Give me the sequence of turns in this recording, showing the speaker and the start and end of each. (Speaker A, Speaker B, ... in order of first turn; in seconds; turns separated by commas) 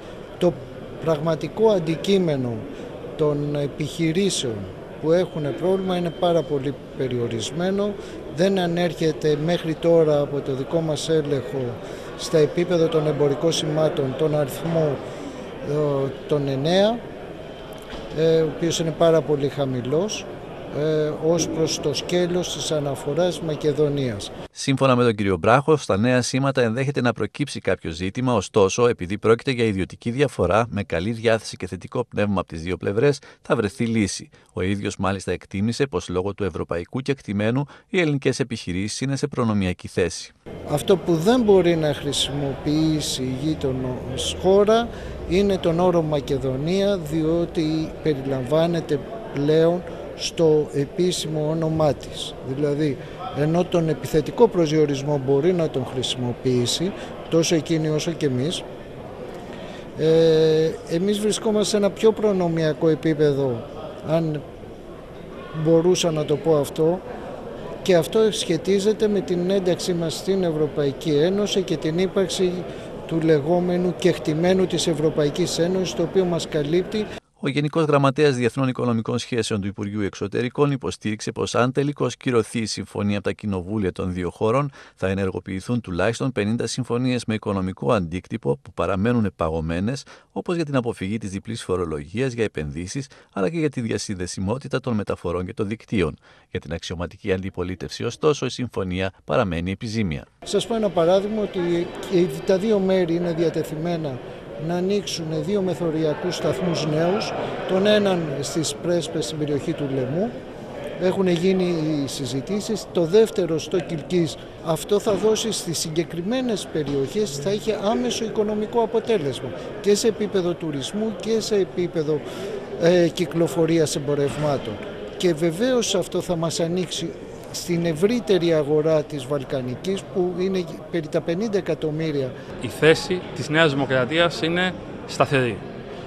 Speaker A: 0.4-2.6, Speaker A: 3.1-15.0, Speaker A: 15.6-17.0, Speaker A: 18.1-24.3, Speaker B: 24.5-40.3, Speaker A: 40.7-58.6, Speaker A: 60.0-64.4, Speaker A: 65.5-67.0, Speaker A: 67.8-77.0, Speaker B: 77.4-100.3, Speaker A: 100.5-110.3, Speaker A: 111.0-122.2, Speaker A: 122.8-132.3, Speaker C: 132.6-135.6